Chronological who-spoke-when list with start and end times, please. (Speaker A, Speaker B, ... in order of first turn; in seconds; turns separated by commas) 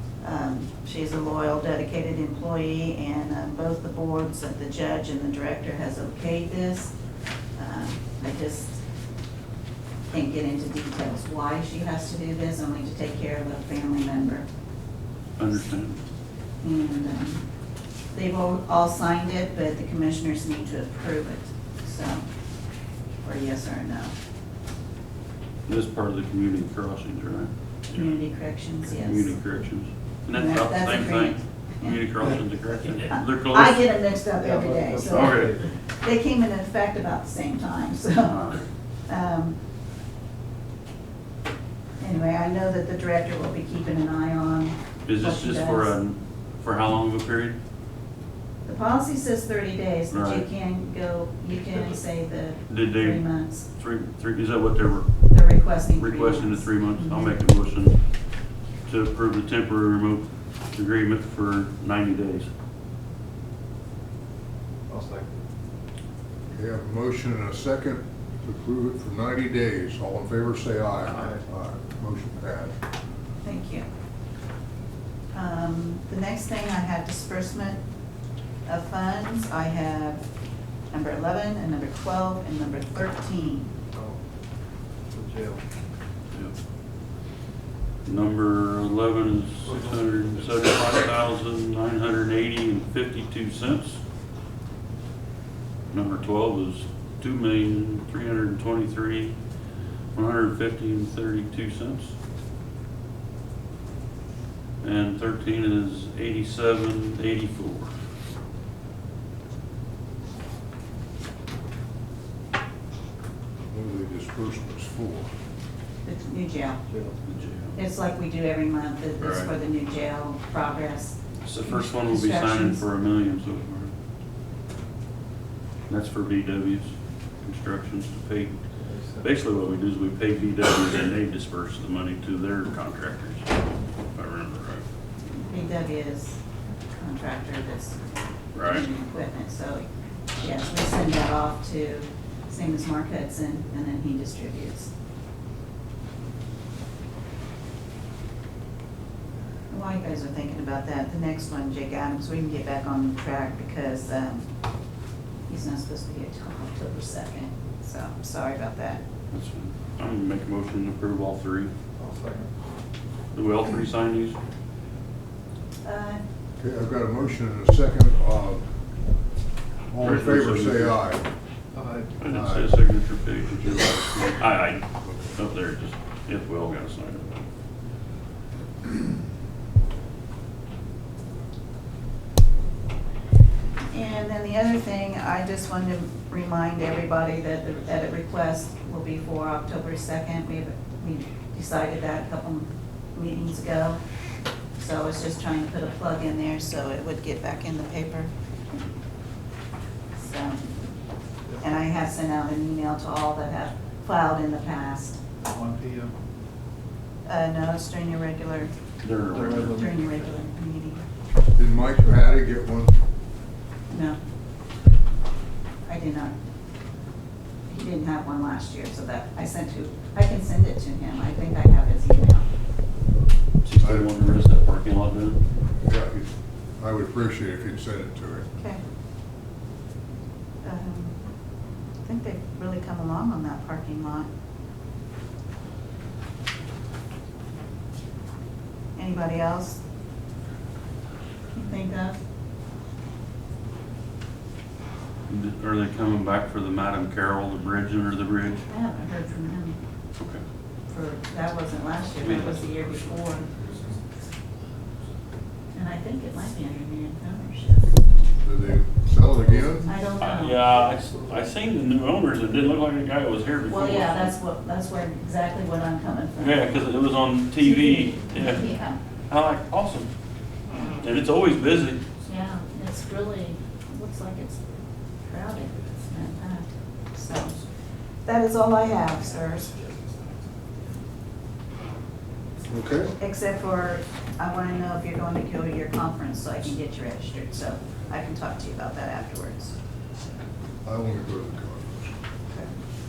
Speaker A: 0.2-6.9, Speaker A: 7.5-8.7, Speaker A: 10.1-14.5, Speaker B: 15.4-16.0, Speaker A: 16.6-17.4, Speaker A: 18.1-22.3, Speaker A: 23.2-24.1, Speaker B: 25.7-33.8, Speaker A: 27.9-29.4, Speaker A: 30.3-32.0, Speaker A: 33.1-39.6, Speaker C: 34.4-35.7, Speaker B: 35.0-35.6, Speaker B: 38.2-38.7, Speaker A: 42.0-45.9, Speaker B: 45.0-47.6, Speaker A: 48.6-53.6, Speaker B: 50.1-50.5, Speaker B: 52.7-58.0, Speaker A: 55.3-57.4, Speaker B: 58.8-62.5, Speaker C: 64.9-65.3, Speaker D: 66.5-72.7, Speaker C: 71.1-71.4, Speaker A: 73.4-73.9, Speaker A: 75.3-77.8, Speaker A: 78.7-80.2, Speaker A: 80.9-83.7, Speaker C: 83.9-84.2, Speaker C: 85.1-85.6, Speaker B: 88.0-94.0, Speaker C: 89.7-90.2, Speaker B: 95.9-99.4, Speaker B: 100.1-102.1, Speaker B: 104.8-107.9, Speaker D: 113.7-115.3, Speaker A: 116.0-116.8, Speaker C: 116.9-117.2, Speaker B: 117.2-117.8, Speaker A: 117.7-122.8, Speaker B: 119.2-119.5, Speaker B: 121.4-123.9, Speaker B: 125.9-128.6, Speaker C: 128.8-129.2, Speaker B: 129.2-133.6, Speaker B: 134.1-134.8, Speaker A: 135.3-139.8, Speaker B: 138.5-138.8, Speaker A: 140.4-144.9, Speaker A: 149.7-154.5, Speaker A: 155.5-159.0, Speaker B: 159.3-161.7, Speaker C: 162.0-162.5, Speaker B: 163.3-164.4, Speaker A: 165.8-166.2, Speaker D: 166.6-168.6, Speaker D: 169.9-171.2, Speaker B: 170.0-171.0, Speaker C: 171.7-172.2, Speaker B: 172.2-177.4, Speaker D: 172.2-172.7, Speaker A: 183.9-194.0, Speaker A: 194.8-198.3, Speaker A: 200.2-200.8, Speaker A: 201.6-205.2, Speaker C: 205.4-206.1, Speaker A: 207.2-208.7, Speaker B: 209.0-209.8, Speaker C: 209.3-210.2, Speaker A: 209.5-211.0, Speaker D: 211.6-212.9, Speaker A: 213.9-214.2, Speaker A: 215.8-216.3, Speaker A: 217.7-222.5, Speaker B: 223.6-225.4, Speaker D: 223.8-224.1, Speaker D: 225.8-228.5, Speaker A: 230.6-231.2, Speaker A: 232.0-234.3, Speaker A: 238.9-239.8, Speaker A: 241.5-242.2, Speaker B: 245.3-248.6, Speaker A: 248.6-249.8, Speaker A: 250.9-253.5, Speaker B: 252.2-253.3, Speaker C: 253.6-253.9, Speaker A: 255.7-257.9, Speaker D: 258.4-259.9, Speaker A: 259.8-260.6, Speaker B: 260.2-264.3, Speaker C: 261.0-261.4, Speaker A: 263.7-266.8, Speaker B: 266.4-268.6, Speaker A: 267.6-269.0, Speaker B: 269.3-270.1, Speaker B: 271.0-272.0, Speaker A: 272.2-274.6, Speaker A: 275.2-277.6, Speaker A: 278.2-279.8, Speaker D: 282.7-283.1, Speaker A: 283.2-289.7, Speaker D: 290.8-292.1